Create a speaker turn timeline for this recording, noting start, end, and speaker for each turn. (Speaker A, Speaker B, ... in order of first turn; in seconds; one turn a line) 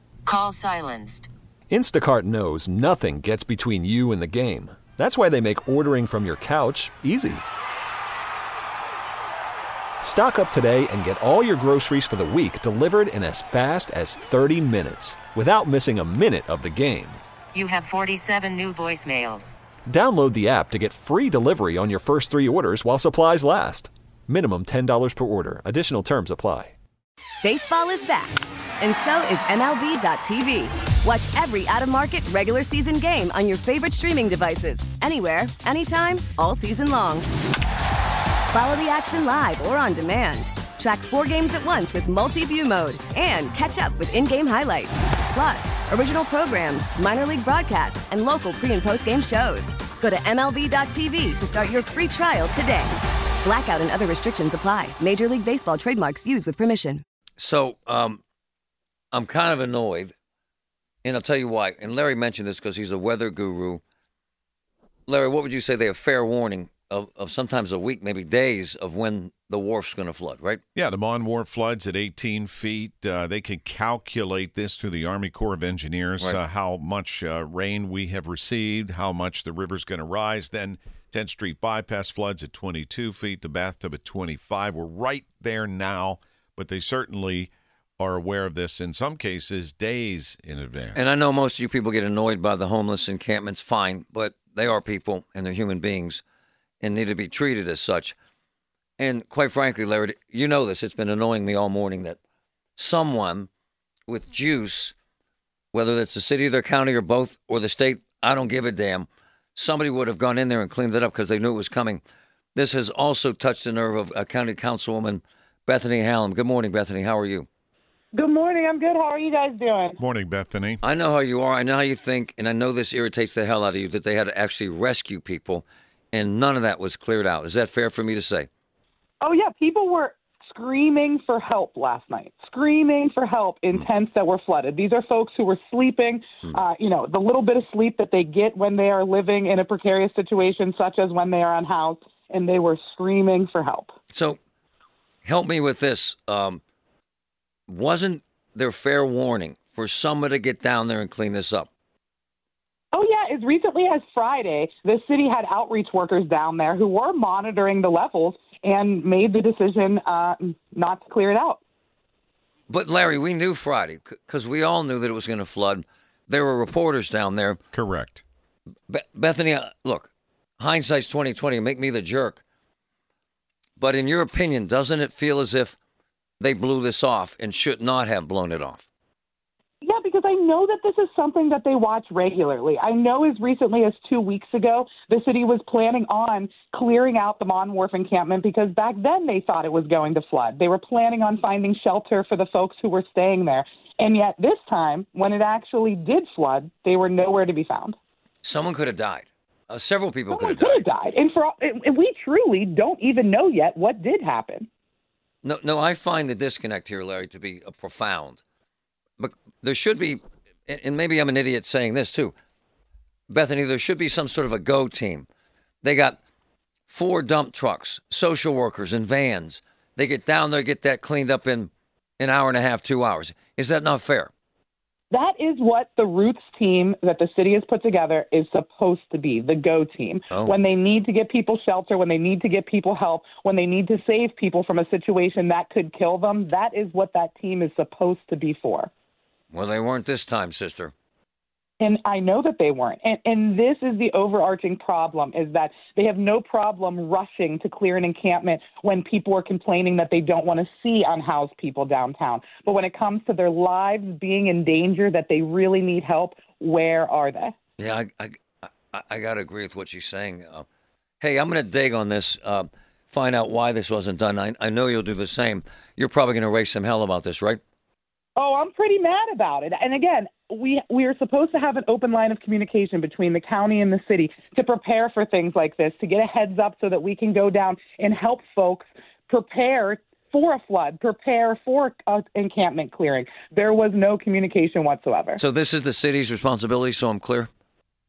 Speaker A: 0.2-1.3
Speaker B: 1.8-7.4
Speaker B: 10.0-17.2
Speaker A: 17.5-19.5
Speaker B: 19.9-26.7
Speaker C: 27.4-37.3
Speaker C: 38.5-57.0
Speaker D: 57.4-58.2
Speaker D: 59.1-60.1
Speaker D: 61.0-63.8
Speaker D: 65.1-70.6
Speaker E: 70.7-91.1
Speaker D: 90.9-96.2
Speaker D: 96.8-98.2
Speaker D: 99.0-102.2
Speaker D: 102.8-103.5
Speaker D: 104.1-104.9
Speaker D: 105.7-112.0
Speaker D: 112.5-117.5
Speaker F: 118.1-120.0
Speaker E: 120.0-120.8
Speaker D: 120.8-128.5
Speaker F: 129.2-143.9
Speaker D: 144.1-144.4
Speaker D: 145.2-146.6
Speaker D: 147.7-151.7
Speaker F: 152.9-161.6
Speaker D: 162.7-167.6
Speaker E: 167.7-168.2
Speaker D: 168.9-172.4
Speaker D: 173.8-175.8
Speaker D: 176.4-178.8
Speaker F: 179.8-198.0
Speaker D: 198.4-200.8
Speaker F: 200.3-204.7
Speaker D: 205.4-208.4
Speaker D: 209.2-212.3
Speaker D: 213.3-215.3
Speaker D: 215.8-216.2
Speaker D: 216.9-224.3
Speaker F: 225.1-238.9
Speaker D: 239.5-240.9
Speaker F: 241.8-257.5
Speaker D: 257.8-260.6
Speaker D: 261.2-267.6
Speaker F: 268.4-285.4
Speaker D: 285.4-287.5